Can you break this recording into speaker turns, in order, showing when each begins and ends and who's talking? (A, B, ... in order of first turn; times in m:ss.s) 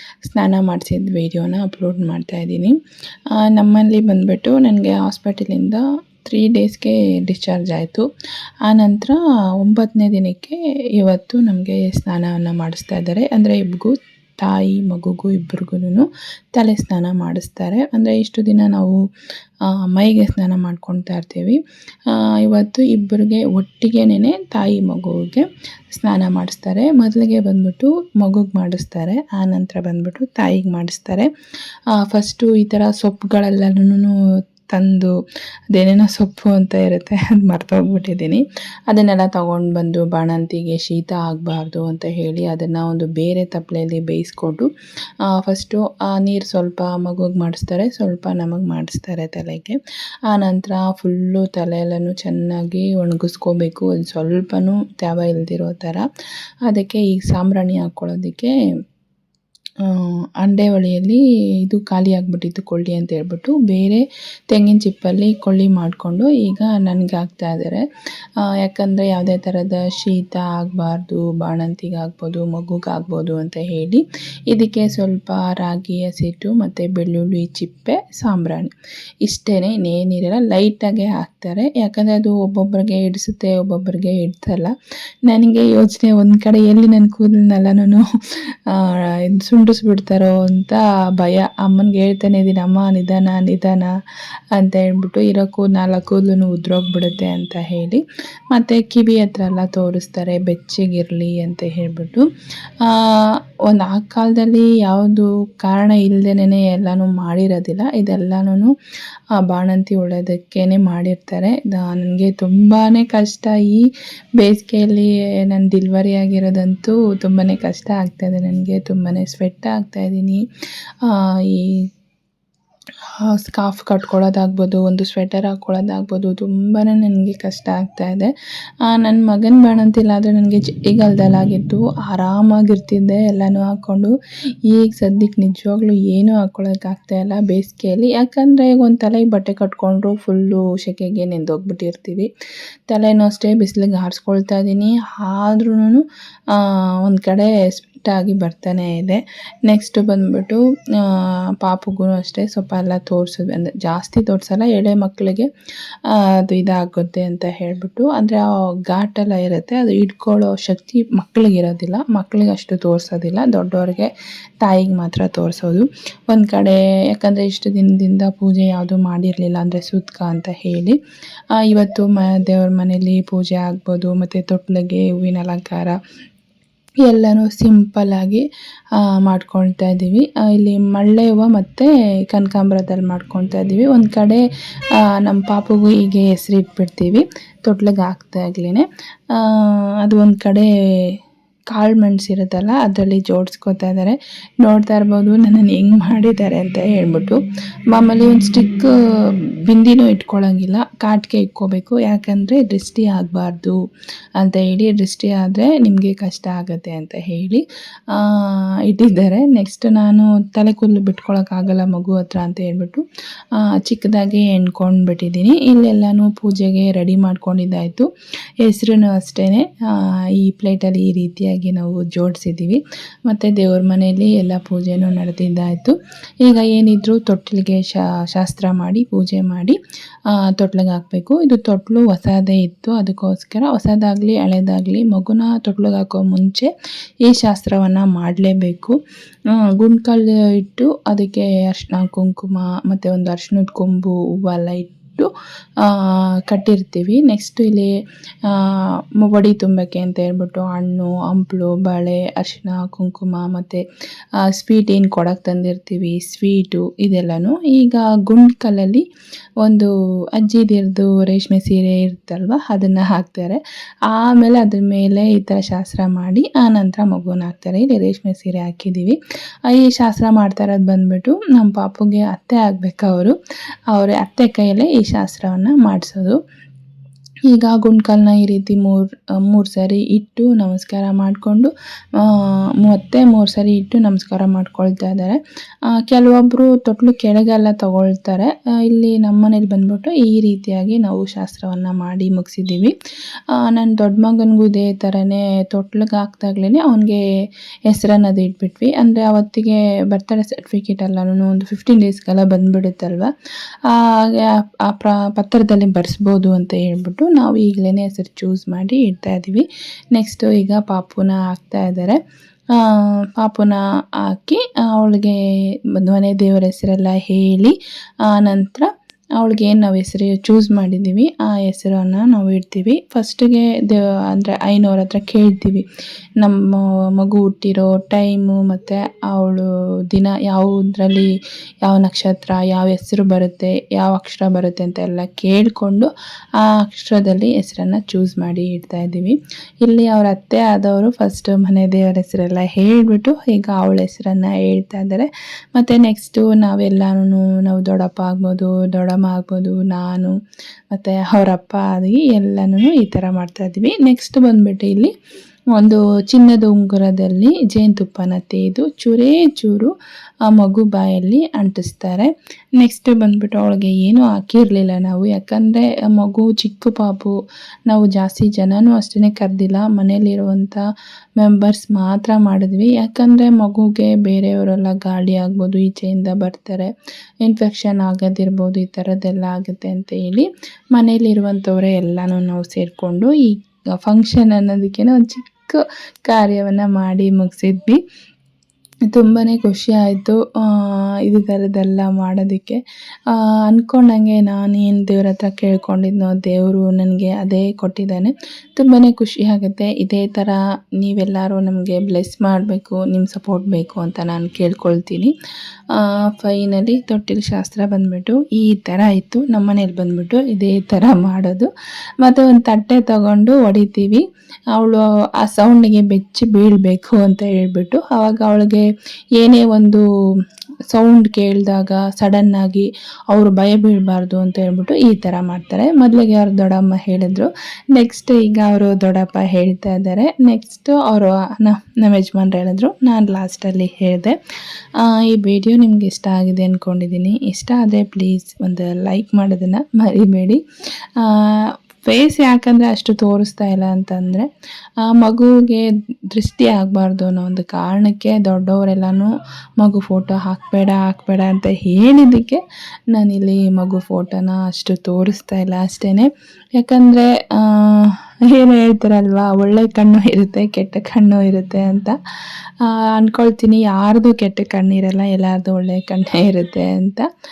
0:00.2-0:02.8 A
0:03.4-0:08.1 A
0:08.7-0:19.0 A
0:19.7-0:31.3 A
0:32.0-0:34.2 A
0:34.7-0:35.1 A
0:35.7-0:44.7 A
0:45.3-0:49.8 A
0:50.3-0:56.1 A
0:56.7-0:58.5 A
0:59.8-1:07.8 A
1:08.4-1:18.7 A
1:19.2-1:24.7 A
1:25.3-1:28.0 A
1:28.7-1:33.9 A
1:34.6-1:42.2 A
1:42.8-1:48.7 A
1:49.4-1:53.9 A
1:54.4-2:00.4 A
2:01.0-2:01.8 A
2:03.2-2:08.3 A
2:08.8-2:14.1 A
2:14.7-2:22.3 A
2:22.9-2:35.5 A
2:36.0-2:44.1 A
2:44.6-2:51.0 A
2:51.6-2:56.0 A
2:57.0-2:58.5 A
2:59.0-3:04.4 A
3:05.2-3:10.7 A
3:11.7-3:18.9 A
3:19.7-3:23.8 A
3:24.4-3:33.0 A
3:33.6-3:38.1 A
3:38.6-3:49.8 A
3:50.4-3:56.7 A
3:57.2-3:59.0 A
3:59.6-4:05.3 A
4:05.8-4:07.9 A
4:08.5-4:13.8 A
4:14.5-4:19.0 A
4:19.6-4:33.4 A
4:33.9-4:36.4 A
4:37.5-4:45.4 A
4:46.0-4:52.9 A
4:53.5-4:57.2 A
4:57.9-5:03.3 A
5:03.8-5:12.2 A
5:12.8-5:15.4 A
5:16.0-5:17.8 A
5:18.3-5:25.8 A
5:26.4-5:31.3 A
5:31.8-5:50.3 A
5:50.9-5:55.1 A
5:55.8-5:59.9 A
6:00.5-6:07.4 A
6:07.9-6:10.8 A
6:11.4-6:16.9 A
6:17.4-6:28.0 A
6:29.1-6:45.3 A
6:45.9-6:51.7 A
6:52.2-6:54.2 A
6:54.8-6:58.9 A
6:59.4-7:00.0 A
7:00.9-7:14.4 A
7:15.0-7:20.6 A
7:21.2-7:24.5 A
7:25.0-7:32.6 A
7:33.1-7:42.2 A
7:42.8-7:47.3 A